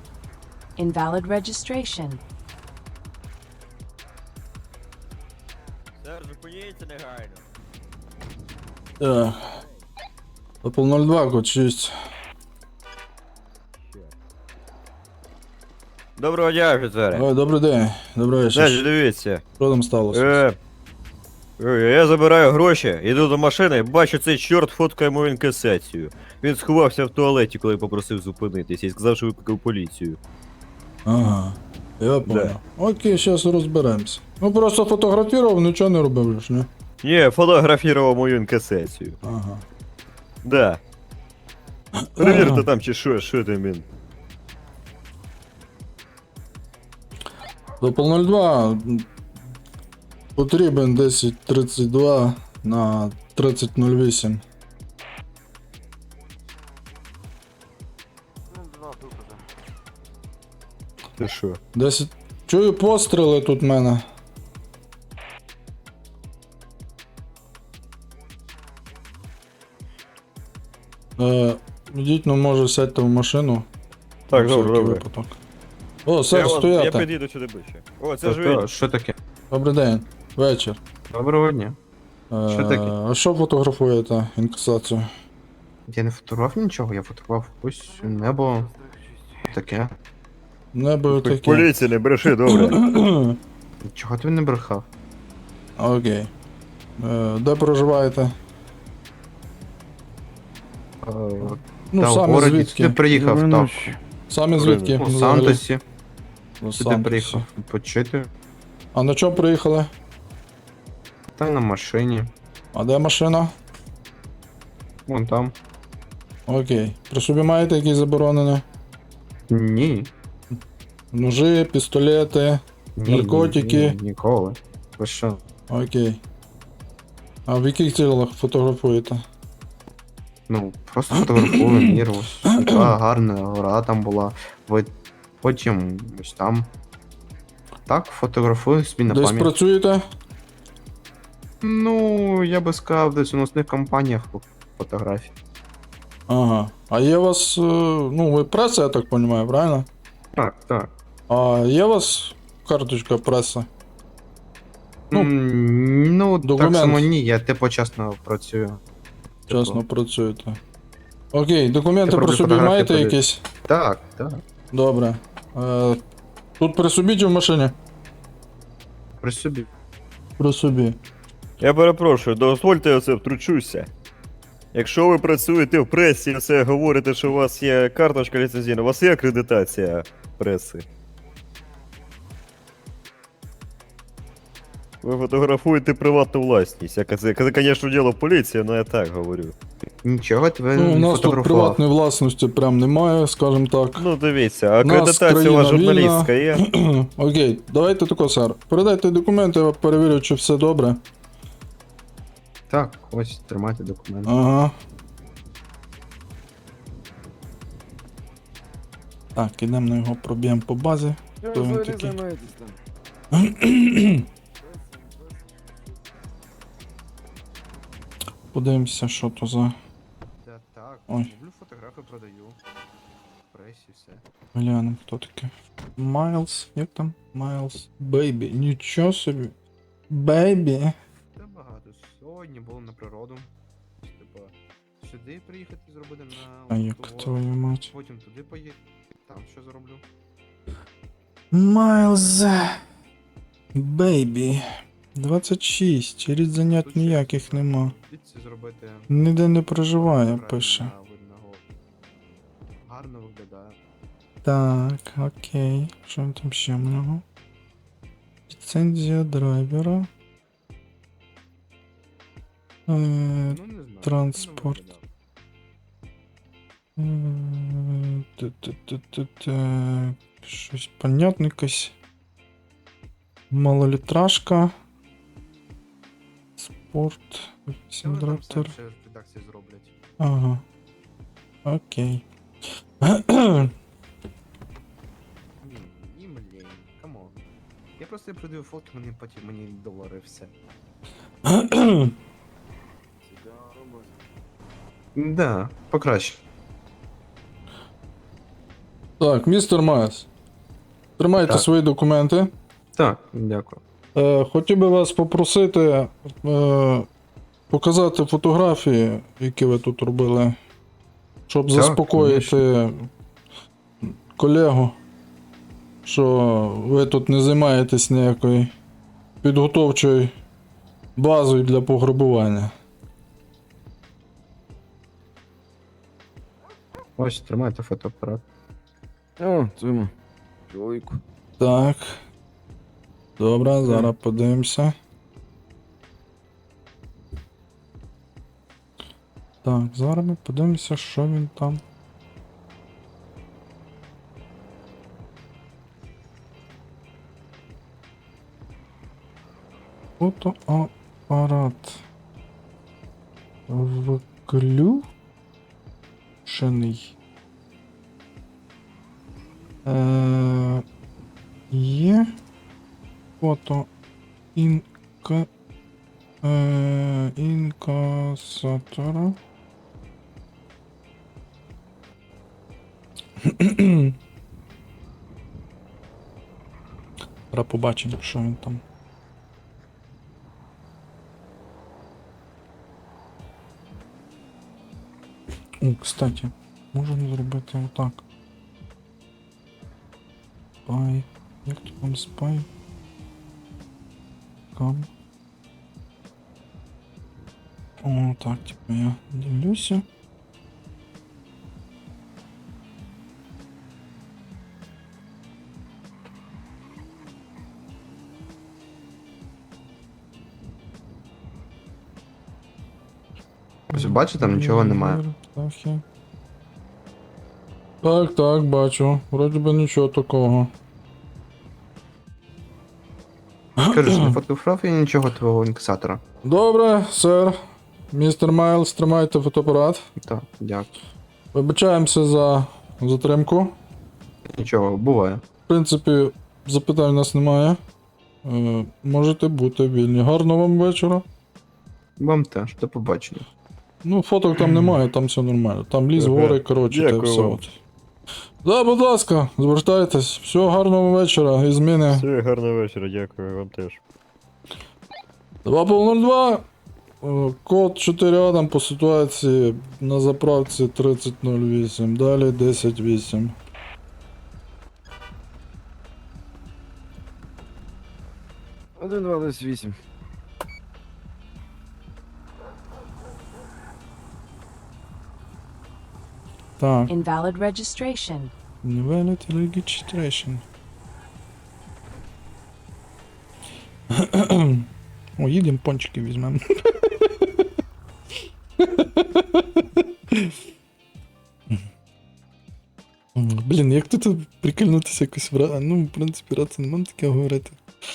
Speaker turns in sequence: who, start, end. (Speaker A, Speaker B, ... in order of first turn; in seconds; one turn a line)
Speaker A: 0.8-2.2
Speaker B: 6.0-7.5
Speaker C: 9.0-9.6
Speaker C: 10.6-11.9
Speaker B: 13.8-14.1
Speaker B: 16.2-17.2
Speaker C: 17.1-18.9
Speaker B: 18.5-19.4
Speaker C: 19.6-20.4
Speaker B: 20.1-20.6
Speaker B: 21.6-30.2
Speaker C: 31.1-36.7
Speaker B: 32.2-32.6
Speaker B: 37.0-39.2
Speaker C: 39.2-39.6
Speaker B: 40.4-40.8
Speaker C: 41.9-42.6
Speaker B: 42.2-43.9
Speaker C: 47.8-49.1
Speaker C: 50.4-54.4
Speaker D: 58.5-59.4
Speaker B: 61.2-61.6
Speaker C: 61.7-64.0
Speaker C: 71.2-73.7
Speaker B: 74.3-75.0
Speaker C: 74.3-75.4
Speaker C: 76.0-77.1
Speaker B: 76.3-78.7
Speaker E: 78.2-79.2
Speaker C: 79.5-80.8
Speaker E: 81.1-81.8
Speaker C: 82.3-85.1
Speaker E: 82.5-82.9
Speaker E: 85.9-88.7
Speaker D: 87.9-89.5
Speaker E: 89.5-90.0
Speaker C: 90.7-93.4
Speaker B: 91.1-92.8
Speaker E: 93.8-94.9
Speaker C: 95.8-96.3
Speaker C: 97.0-98.3
Speaker E: 101.0-104.0
Speaker C: 101.9-103.0
Speaker D: 103.1-104.0
Speaker C: 104.3-105.6
Speaker B: 104.6-105.0
Speaker E: 104.8-105.8
Speaker C: 106.6-107.4
Speaker E: 106.8-108.3
Speaker C: 108.9-109.9
Speaker E: 111.3-112.3
Speaker C: 112.7-113.5
Speaker E: 115.1-115.5
Speaker C: 116.5-118.6
Speaker E: 119.5-120.1
Speaker C: 121.1-124.0
Speaker E: 123.0-125.4
Speaker C: 125.7-126.2
Speaker C: 127.5-129.2
Speaker E: 130.5-136.7
Speaker C: 131.2-132.9
Speaker E: 137.9-139.5
Speaker C: 139.1-140.0
Speaker E: 141.6-145.3
Speaker C: 146.3-149.9
Speaker E: 150.3-150.9
Speaker C: 151.3-153.7
Speaker E: 155.1-158.8
Speaker C: 156.4-157.1
Speaker E: 159.5-159.8
Speaker C: 159.5-160.6
Speaker C: 161.3-163.4
Speaker E: 162.0-164.4
Speaker C: 164.7-166.0
Speaker C: 166.6-167.7
Speaker E: 169.2-169.7
Speaker C: 170.4-171.0
Speaker B: 171.6-173.9
Speaker B: 174.7-180.8
Speaker B: 185.0-189.5
Speaker E: 190.0-191.8
Speaker C: 190.8-194.1
Speaker B: 193.9-196.6
Speaker C: 194.8-201.0
Speaker E: 202.7-204.3
Speaker C: 204.2-204.7
Speaker C: 209.3-212.2
Speaker D: 211.4-212.8
Speaker C: 213.3-214.2
Speaker D: 214.6-216.4
Speaker C: 218.5-219.8
Speaker E: 220.4-222.6
Speaker E: 223.5-224.2
Speaker C: 224.5-229.5
Speaker C: 230.1-230.9
Speaker E: 231.3-233.5
Speaker E: 234.0-240.0
Speaker C: 236.7-237.9
Speaker C: 241.5-242.8
Speaker C: 243.7-247.9
Speaker E: 246.7-249.1
Speaker C: 249.1-250.9
Speaker E: 249.9-251.6
Speaker E: 252.8-253.8
Speaker C: 254.4-257.2
Speaker C: 258.5-260.1
Speaker C: 262.9-264.8
Speaker E: 263.5-265.1
Speaker C: 266.9-271.9
Speaker C: 273.5-274.7
Speaker C: 276.6-278.7
Speaker E: 278.0-279.9
Speaker C: 280.2-280.6
Speaker C: 281.6-282.2
Speaker C: 283.0-283.7
Speaker E: 285.6-287.4
Speaker E: 288.0-290.5
Speaker C: 291.4-292.1
Speaker D: 293.2-294.2
Speaker E: 295.1-296.4
Speaker C: 299.2-300.3
Speaker C: 301.2-302.5
Speaker E: 302.9-303.8
Speaker C: 304.1-307.1
Speaker C: 307.7-310.6
Speaker C: 311.5-313.1
Speaker E: 311.7-312.6
Speaker C: 314.0-315.0
Speaker C: 316.0-318.7
Speaker C: 319.4-320.3
Speaker C: 321.1-322.7
Speaker E: 327.2-328.4
Speaker D: 329.4-330.1
Speaker D: 330.7-331.2
Speaker C: 331.6-332.2
Speaker C: 333.4-334.9
Speaker E: 333.8-334.1
Speaker C: 339.6-341.8
Speaker C: 350.2-352.0
Speaker C: 353.7-355.1
Speaker C: 356.4-357.1
Speaker C: 359.8-360.8
Speaker C: 361.7-362.4
Speaker C: 363.4-363.9
Speaker C: 364.5-365.5
Speaker C: 366.4-369.4
Speaker C: 373.4-374.2
Speaker C: 377.5-378.8
Speaker C: 385.8-388.2
Speaker C: 390.9-392.7
Speaker C: 394.7-395.1
Speaker C: 398.0-400.0
Speaker E: 413.9-415.2
Speaker C: 413.9-416.0
Speaker C: 418.0-420.7
Speaker C: 423.8-424.3
Speaker E: 423.9-426.2
Speaker C: 426.4-427.6
Speaker C: 428.1-430.1
Speaker E: 430.2-430.9
Speaker C: 431.5-433.8
Speaker E: 434.5-435.4
Speaker C: 435.7-437.8
Speaker C: 438.4-441.2
Speaker E: 442.2-443.5
Speaker C: 444.0-447.8
Speaker B: 446.1-447.6
Speaker C: 448.6-452.2
Speaker B: 452.1-454.0
Speaker C: 455.6-456.6
Speaker C: 457.2-463.5
Speaker D: 469.0-469.9
Speaker C: 476.8-477.1
Speaker A: 477.1-478.5
Speaker C: 478.8-480.6
Speaker C: 484.1-487.7
Speaker C: 488.8-490.6
Speaker C: 493.3-497.8